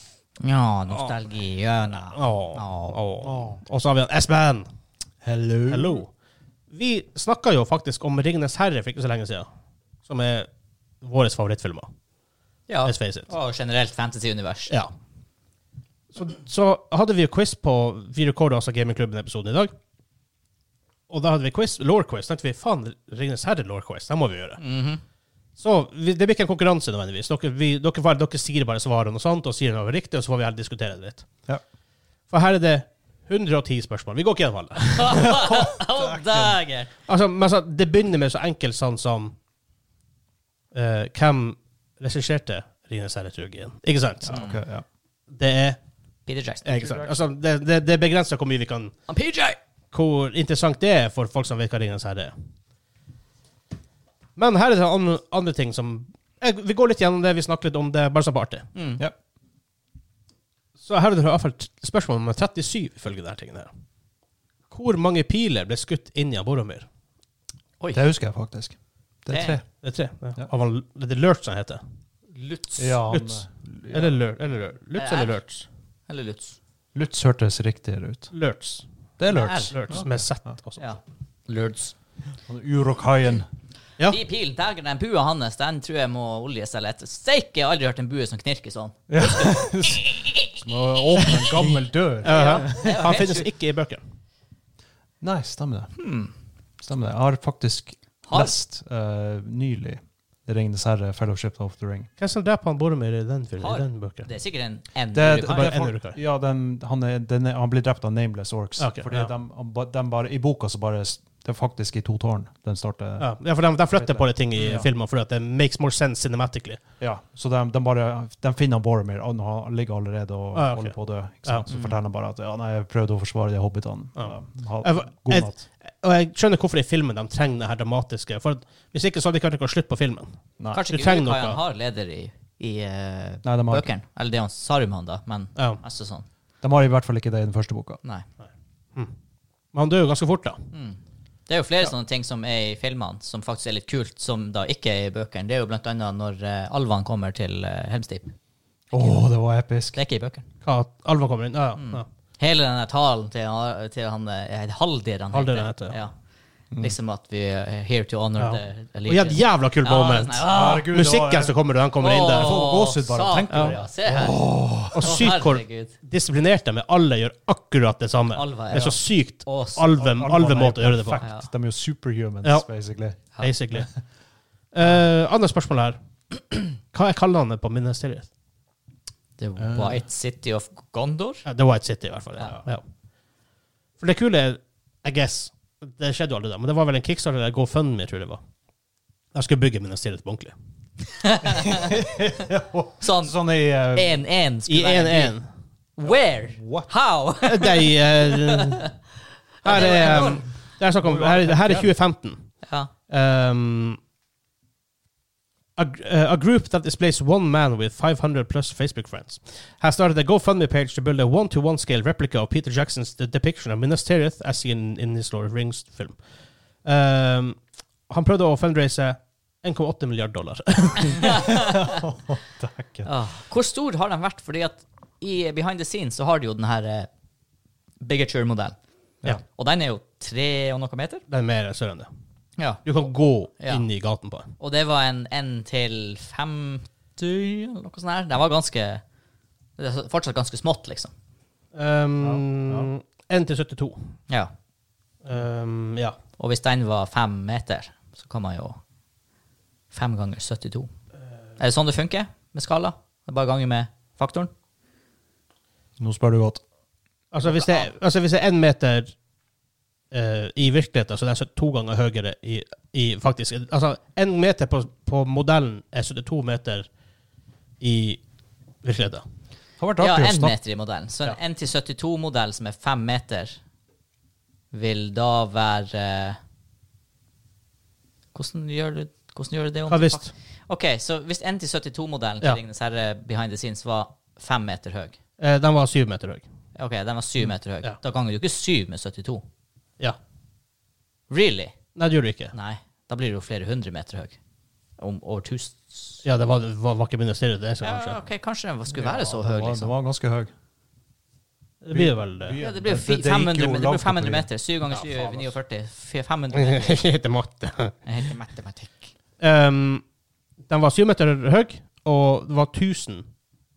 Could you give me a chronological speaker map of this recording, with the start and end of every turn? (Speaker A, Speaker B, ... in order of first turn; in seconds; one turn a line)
Speaker A: 0.4-3.0
Speaker B: 0.9-1.2
Speaker B: 2.1-4.7
Speaker C: 3.2-3.6
Speaker C: 5.2-6.0
Speaker B: 5.7-6.1
Speaker B: 6.7-9.5
Speaker B: 10.1-10.5
Speaker B: 11.0-11.9
Speaker A: 12.7-14.8
Speaker B: 12.8-13.3
Speaker B: 16.1-19.7
Speaker B: 21.1-24.6
Speaker A: 24.6-25.0
Speaker B: 25.6-31.3
Speaker B: 32.3-35.3
Speaker A: 34.9-36.9
Speaker C: 35.2-36.5
Speaker B: 37.1-39.4
Speaker B: 40.7-44.4
Speaker C: 44.2-44.9
Speaker A: 44.3-44.6
Speaker B: 45.3-45.8
Speaker A: 46.3-46.6
Speaker B: 46.6-49.0
Speaker C: 46.7-47.1
Speaker A: 49.1-49.6
Speaker B: 49.9-52.3
Speaker B: 54.4-58.7
Speaker A: 58.8-59.0
Speaker B: 60.8-63.7
Speaker B: 64.7-66.9
Speaker A: 67.8-68.0
Speaker C: 67.9-69.7
Speaker A: 69.3-69.6
Speaker B: 69.8-71.8
Speaker A: 72.3-73.0
Speaker C: 72.8-74.2
Speaker B: 73.1-75.7
Speaker A: 75.0-75.4
Speaker A: 76.1-76.6
Speaker C: 76.9-78.3
Speaker B: 78.3-78.8
Speaker C: 79.2-80.2
Speaker A: 79.3-80.0
Speaker B: 79.7-81.0
Speaker A: 80.8-81.9
Speaker C: 82.5-83.5
Speaker A: 84.1-90.5
Speaker C: 89.1-93.2
Speaker B: 91.2-91.7
Speaker B: 92.2-94.0
Speaker A: 92.3-93.5
Speaker C: 95.2-95.9
Speaker A: 96.0-96.3
Speaker C: 96.8-102.1
Speaker A: 98.3-98.5
Speaker B: 102.2-104.3
Speaker A: 103.6-105.8
Speaker C: 105.1-113.3
Speaker B: 105.3-106.2
Speaker B: 108.8-109.3
Speaker B: 113.2-116.8
Speaker C: 113.9-114.9
Speaker C: 117.0-125.6
Speaker B: 120.5-121.7
Speaker A: 121.7-122.0
Speaker B: 124.2-130.4
Speaker A: 130.7-136.3
Speaker B: 130.9-131.6
Speaker C: 133.4-133.9
Speaker B: 135.6-135.8
Speaker C: 136.6-138.0
Speaker B: 139.7-140.6
Speaker A: 140.7-148.3
Speaker C: 148.9-150.0
Speaker A: 149.0-149.2
Speaker A: 149.9-150.4
Speaker B: 150.6-152.1
Speaker A: 151.8-156.1
Speaker B: 155.3-156.0
Speaker A: 156.8-160.9
Speaker B: 158.4-162.7
Speaker C: 160.5-161.6
Speaker A: 162.0-164.4
Speaker C: 162.2-165.3
Speaker B: 163.5-163.8
Speaker B: 164.9-171.2
Speaker A: 165.0-165.9
Speaker A: 168.3-169.9
Speaker C: 170.0-173.2
Speaker A: 171.2-171.5
Speaker B: 173.4-173.9
Speaker B: 174.7-176.0
Speaker B: 176.7-178.3
Speaker A: 179.4-181.4
Speaker C: 179.6-180.0
Speaker B: 181.4-182.8
Speaker B: 184.0-188.4
Speaker B: 189.3-190.5
Speaker A: 191.1-192.0
Speaker C: 191.6-194.2
Speaker A: 193.0-193.4
Speaker A: 193.9-195.3
Speaker B: 194.7-195.5
Speaker A: 196.0-198.9
Speaker C: 196.1-196.9
Speaker B: 197.4-198.9
Speaker A: 199.6-200.5
Speaker B: 199.6-202.4
Speaker C: 199.8-200.3
Speaker C: 201.0-201.9
Speaker A: 202.6-202.9
Speaker B: 203.1-204.0
Speaker B: 205.8-216.2
Speaker B: 216.8-221.4
Speaker A: 221.2-222.0
Speaker C: 221.3-223.1
Speaker A: 223.1-227.1
Speaker A: 228.0-228.8
Speaker A: 229.5-231.2
Speaker B: 231.3-232.1
Speaker A: 232.6-232.8
Speaker B: 232.8-234.5
Speaker A: 233.6-233.9
Speaker A: 234.6-239.0
Speaker A: 239.8-241.1
Speaker B: 241.7-244.1
Speaker C: 242.2-242.9
Speaker B: 245.2-246.2
Speaker A: 246.4-248.8
Speaker A: 249.9-250.9
Speaker A: 251.6-254.5
Speaker C: 256.0-256.6
Speaker B: 257.3-259.1
Speaker B: 260.1-266.9
Speaker B: 267.8-268.2
Speaker B: 268.8-269.2
Speaker C: 269.8-270.6
Speaker A: 270.0-273.6
Speaker A: 274.7-276.4
Speaker A: 278.4-285.2
Speaker B: 279.9-280.3
Speaker B: 285.4-286.4
Speaker A: 286.8-289.4
Speaker A: 291.3-291.8
Speaker B: 292.0-292.5
Speaker A: 292.5-294.4
Speaker A: 295.0-296.2
Speaker B: 296.2-298.2
Speaker A: 297.8-299.9
Speaker C: 298.9-300.5
Speaker B: 301.8-302.6
Speaker C: 301.9-305.5
Speaker A: 302.6-307.1
Speaker B: 306.5-308.0
Speaker A: 308.1-309.1
Speaker B: 309.4-310.0
Speaker B: 310.7-313.3